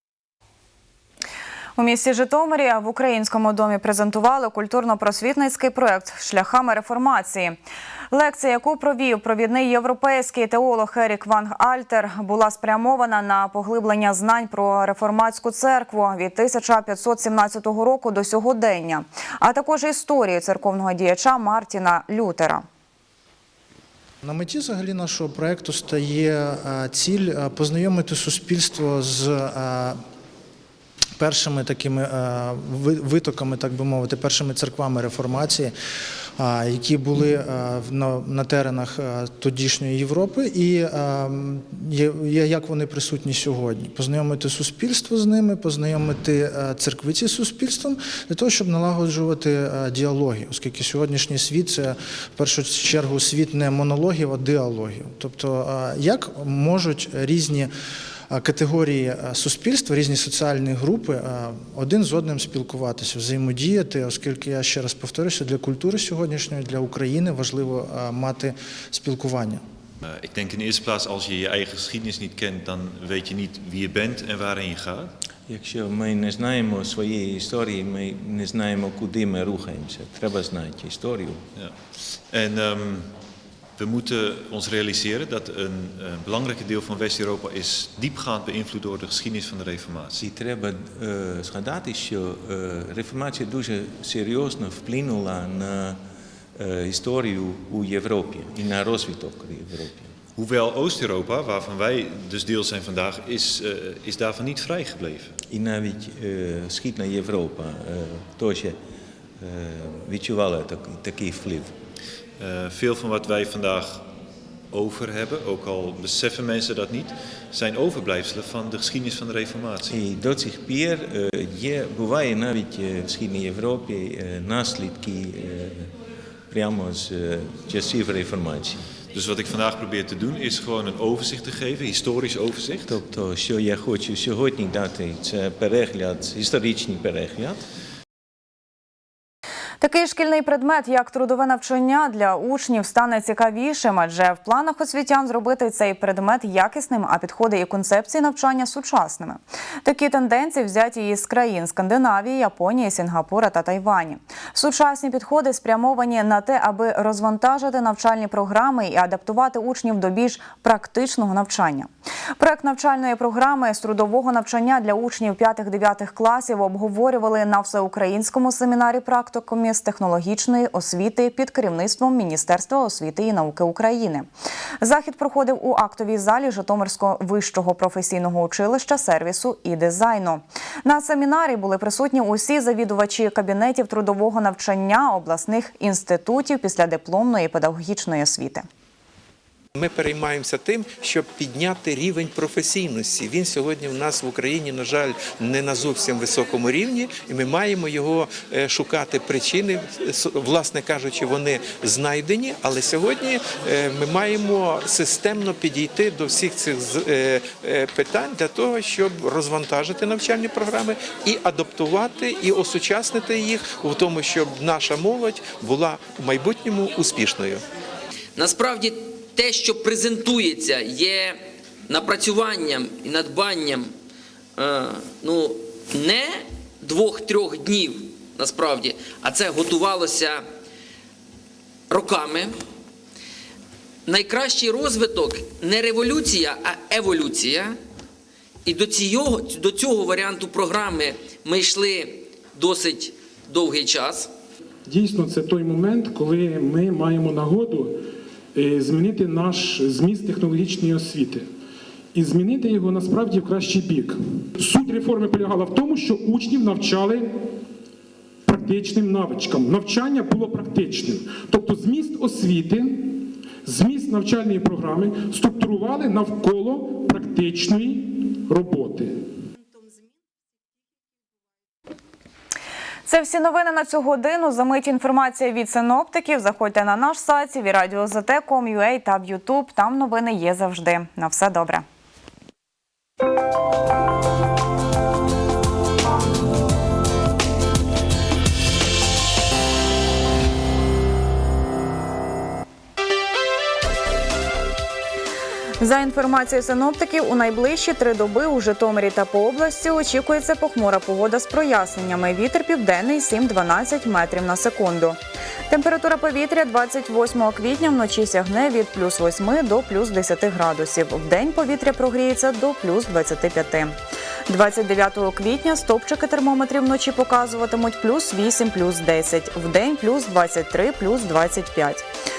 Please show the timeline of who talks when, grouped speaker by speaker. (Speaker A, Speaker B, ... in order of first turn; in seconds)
Speaker A: 1.8-7.6, 8.1-22.6, 139.8-174.3, 174.8-188.6, 273.1-281.8, 295.8-305.2, 305.7-313.9, 314.5-322.0
Speaker B: 24.2-30.0, 31.2-35.7, 36.4-57.7, 58.3-69.6
Speaker C: 70.0-75.1, 82.3-83.2, 83.8-90.2, 100.3-105.3, 112.4-114.1, 114.7-119.9, 129.1-133.0
Speaker D: 75.5-81.4, 90.2-96.0, 96.5-100.1, 105.5-108.8, 109.4-111.7, 119.9-125.9, 126.5-128.8, 132.8-137.6
Speaker E: 189.7-217.6
Speaker F: 218.4-223.9, 224.6-230.4, 231.9-232.6, 234.1-237.8, 238.6-244.3
Speaker G: 244.8-248.0, 248.5-251.5, 252.1-257.4, 258.4-269.2